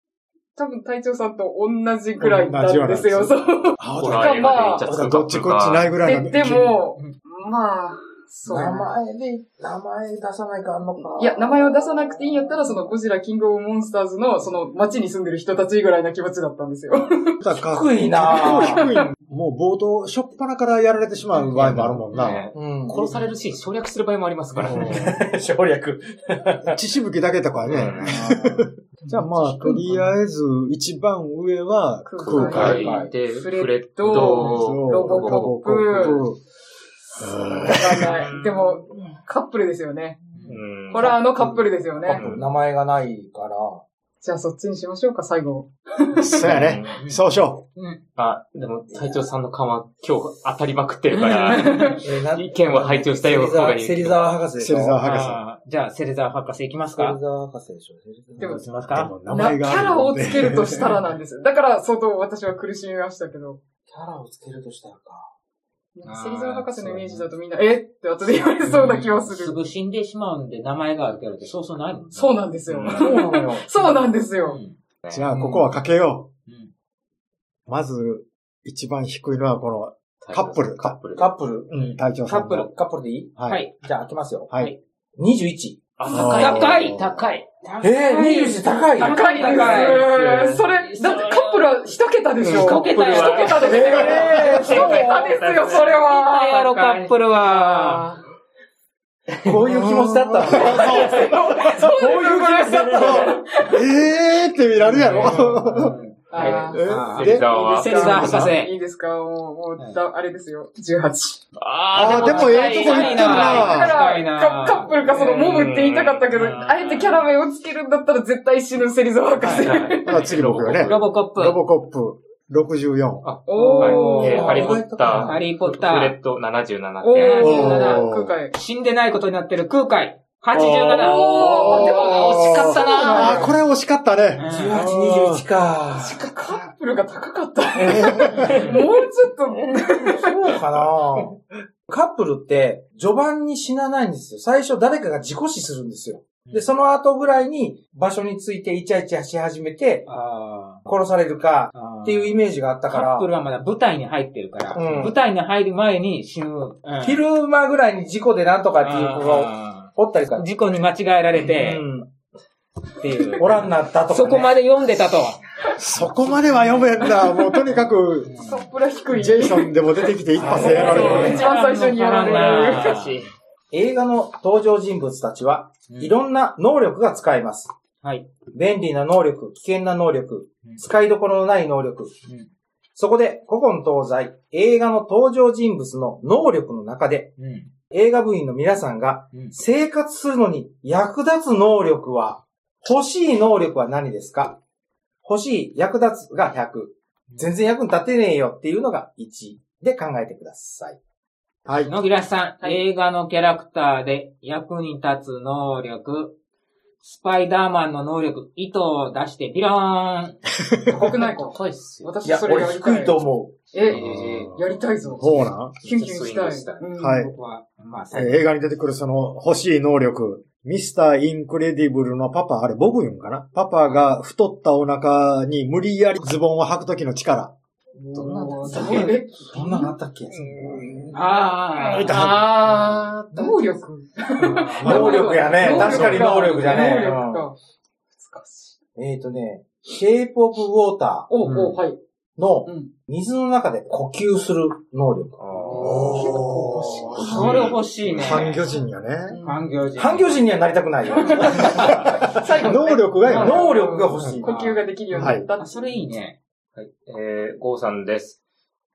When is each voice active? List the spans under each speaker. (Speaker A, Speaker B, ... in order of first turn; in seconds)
Speaker A: 0.5-4.9, 6.0-8.9, 11.1-17.4, 18.4-19.0, 29.0-30.1, 32.1-36.2, 37.6-40.2, 40.9-42.2, 44.2-46.6, 51.5-52.0, 58.4-58.6, 59.3-63.6, 65.9-69.6, 72.1-74.6, 89.0-96.6, 100.0-103.8, 106.3-111.4, 112.1-120.3, 123.5-124.7, 127.0-128.5, 130.8-133.5, 135.9-140.6, 167.0-167.6, 168.3-173.1, 210.9-217.3, 228.1-229.9, 233.3-237.6, 238.1-238.8, 241.3-242.0, 242.7-242.9, 245.7-246.2, 249.3-249.7, 251.1-255.8
Speaker B: 2.2-6.8, 17.4-22.5, 24.6-25.2, 26.6-32.9, 34.1-36.4, 37.2-38.3, 46.2-47.6, 54.6-55.4, 58.4-61.0, 75.1-76.3, 77.7-81.0, 81.7-82.7, 83.4-83.6, 84.5-84.7, 86.1-87.3, 99.7-101.7, 102.9-108.5, 111.9-114.0, 120.0-123.3, 127.4-128.4, 130.5-135.5, 137.8-138.6, 165.7-168.4, 169.1-171.4, 201.7-201.9, 210.7-211.1, 213.9-215.8, 217.0-217.3, 218.1-227.5, 230.3-231.2, 231.9-232.5, 234.4-236.5, 245.8-249.4, 251.7-253.7, 255.1-255.5
Speaker C: 3.9-5.9, 21.5-25.2, 27.6-28.2, 32.2-36.2, 38.0-38.8, 40.5-41.2, 42.0-42.5, 46.4-47.0, 48.1-54.3, 72.7-73.2, 75.0-75.3, 80.2-81.3, 86.0-87.5, 89.7-90.7, 92.4-98.2, 105.1-105.6, 106.4-108.1, 111.5-113.7, 115.1-116.6, 119.4-121.1, 123.2-127.8, 132.1-133.3, 172.2-173.3, 211.0-212.1, 213.8-214.6, 215.8-216.8, 228.1-229.1, 231.8-233.7, 245.4-246.6, 256.8-258.4
Speaker D: 8.4-12.6, 17.6-18.9, 22.5-23.2, 24.6-26.8, 28.0-28.7, 32.5-33.1, 41.1-43.8, 48.9-49.2, 52.0-55.0, 57.0-58.6, 63.9-65.3, 72.8-73.7, 81.1-81.7, 82.7-84.5, 85.2-85.8, 87.8-89.2, 93.6-95.3, 99.4-103.4, 124.2-125.4, 134.5-136.3, 137.8-138.7, 140.4-150.1, 150.9-153.3, 154.7-155.2, 157.0-160.5, 161.5-162.1, 163.3-164.5, 170.3-171.4, 173.7-177.7, 178.5-182.1, 182.9-187.3, 187.9-194.6, 195.2-201.0, 212.2-213.7, 228.7-231.2, 234.8-237.4, 238.9-241.3, 242.4-247.5, 249.9-252.7, 253.2-254.8
Speaker E: 40.3-40.6, 46.5-47.2, 47.8-48.0, 51.1-52.0, 55.0-57.2, 58.4-59.1, 66.0-67.3, 68.6-72.4, 74.4-74.8, 75.3-75.8, 76.5-76.7, 81.7-82.7, 83.5-83.7, 86.1-87.0, 87.6-91.8, 92.4-95.1, 96.1-98.0, 104.7-108.7, 112.2-115.3, 116.3-117.3, 119.4-119.7, 120.8-121.6, 123.5-126.2, 127.1-133.6, 134.3-134.8, 150.1-150.9, 151.7-157.2, 158.8-161.8, 163.0-165.4, 168.3-168.6, 170.4-173.3, 175.9-176.2, 178.0-178.3, 187.4-187.7, 201.8-206.4, 207.0-210.4, 217.2-218.5, 228.1-229.2, 231.1-232.1, 247.2-248.7, 249.4-250.4, 251.4-252.0, 255.2-256.4